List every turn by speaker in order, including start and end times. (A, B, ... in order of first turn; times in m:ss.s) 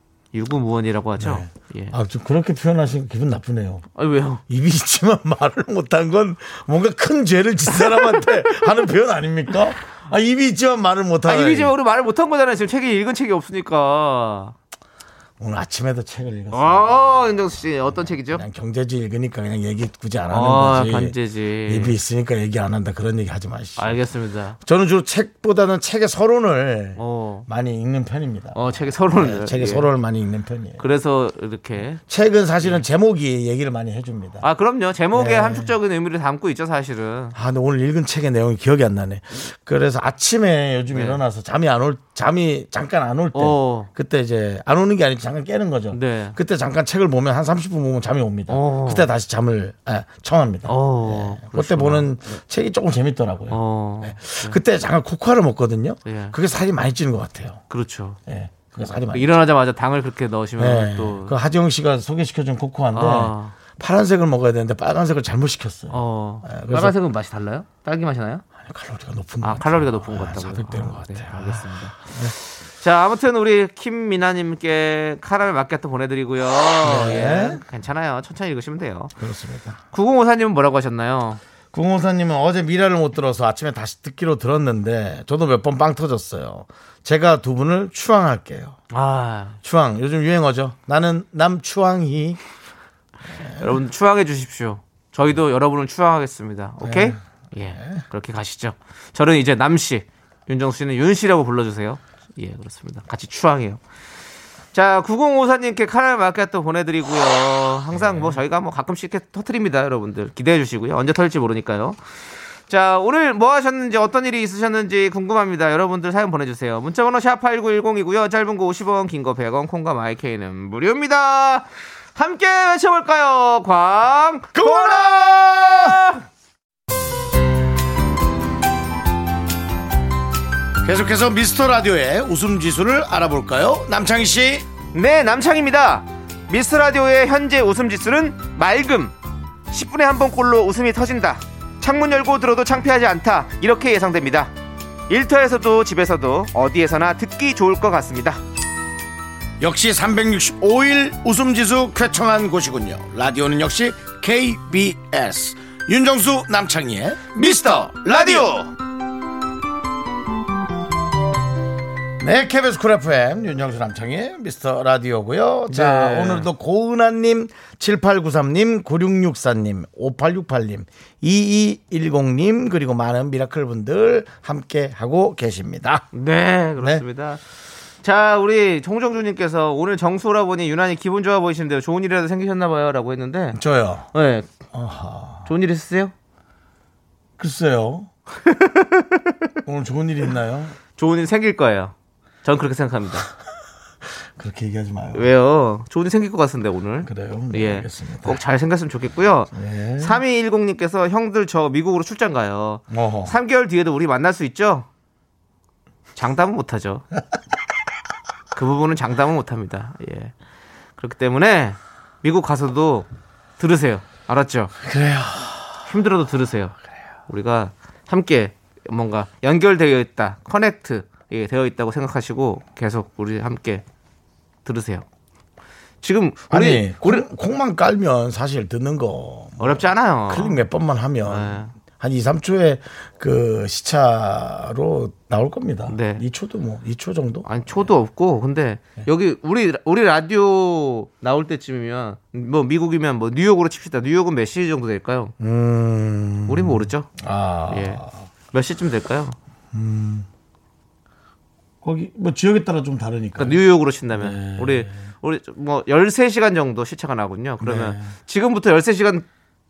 0:00.3-0:02.0 A
0:01.2-0:03.8 B
0:04.0-0:04.4 A
0:04.5-0:11.7 B
0:07.7-0:08.7 A
0:11.2-0:14.6 A
0:15.4-0:17.0 B
0:16.5-0:18.4 A
0:18.3-0:24.0 B
0:20.3-0:22.0 A
0:23.8-0:24.6 A
0:24.6-0:30.8 B
0:27.0-0:27.5 A
0:28.6-0:29.9 A
0:30.8-0:32.0 A
0:32.0-0:34.4 B
0:34.4-0:37.4 A
0:35.1-0:35.7 B
0:37.4-0:57.6 B
0:40.9-0:41.2 A
0:43.4-0:43.9 A
0:45.9-0:46.4 A
0:48.5-0:49.1 A
0:50.7-0:52.1 A
0:53.5-0:54.6 A
0:56.1-0:56.4 A
0:57.7-0:58.2 A
0:58.3-0:59.4 B
0:59.1-1:01.4 A
1:00.6-1:07.0 B
1:02.9-1:03.6 A
1:05.9-1:08.4 A
1:08.6-1:12.3 B
1:09.4-1:19.1 A
1:16.8-1:17.6 B
1:19.2-1:19.8 B
1:19.9-1:21.4 A
1:21.7-1:28.8 B
1:28.9-1:29.6 A
1:29.6-1:32.4 B
1:33.3-1:33.7 B
1:33.6-1:43.8 A
1:36.8-1:37.2 B
1:37.8-1:38.0 B
1:44.7-1:52.0 A
1:47.9-1:48.4 B
1:52.7-2:06.2 A
2:04.5-2:06.0 B
2:10.8-2:14.7 B
2:14.9-2:19.2 A
2:19.7-2:24.5 A
2:25.1-2:28.4 A
2:29.6-2:38.7 B
2:37.4-2:38.7 A
2:42.2-2:56.1 B
2:45.7-2:46.5 A
2:56.1-2:57.4 A
2:56.8-2:57.0 B
2:58.0-3:03.6 A
3:03.6-3:04.1 B
3:04.1-3:04.5 A
3:04.7-3:05.5 B
3:05.5-3:06.1 A
3:07.4-3:08.1 B
3:08.5-3:09.2 A
3:09.6-3:10.8 B
3:11.0-3:13.3 A
3:14.4-3:15.3 B
3:15.1-3:24.9 A
3:17.0-3:18.4 B
3:19.5-3:20.2 B
3:22.9-3:23.3 B
3:26.2-3:27.0 A
3:28.5-3:30.3 A
3:31.0-3:33.1 A
3:33.6-3:34.7 A
3:34.8-3:35.8 B
3:35.9-3:36.8 A
3:37.3-3:43.8 A
3:44.6-3:45.0 A
3:46.0-3:47.3 A
3:46.5-3:57.9 B
3:49.6-3:50.6 A
3:51.2-3:51.7 A
3:55.9-3:56.2 A
3:57.5-4:05.3 A
4:05.4-4:08.2 B
4:06.5-4:07.1 A
4:07.7-4:09.4 A
4:09.7-4:10.3 B
4:11.8-4:13.6 B
4:13.4-4:19.3 A
4:14.1-4:15.0 B
4:17.6-4:18.1 B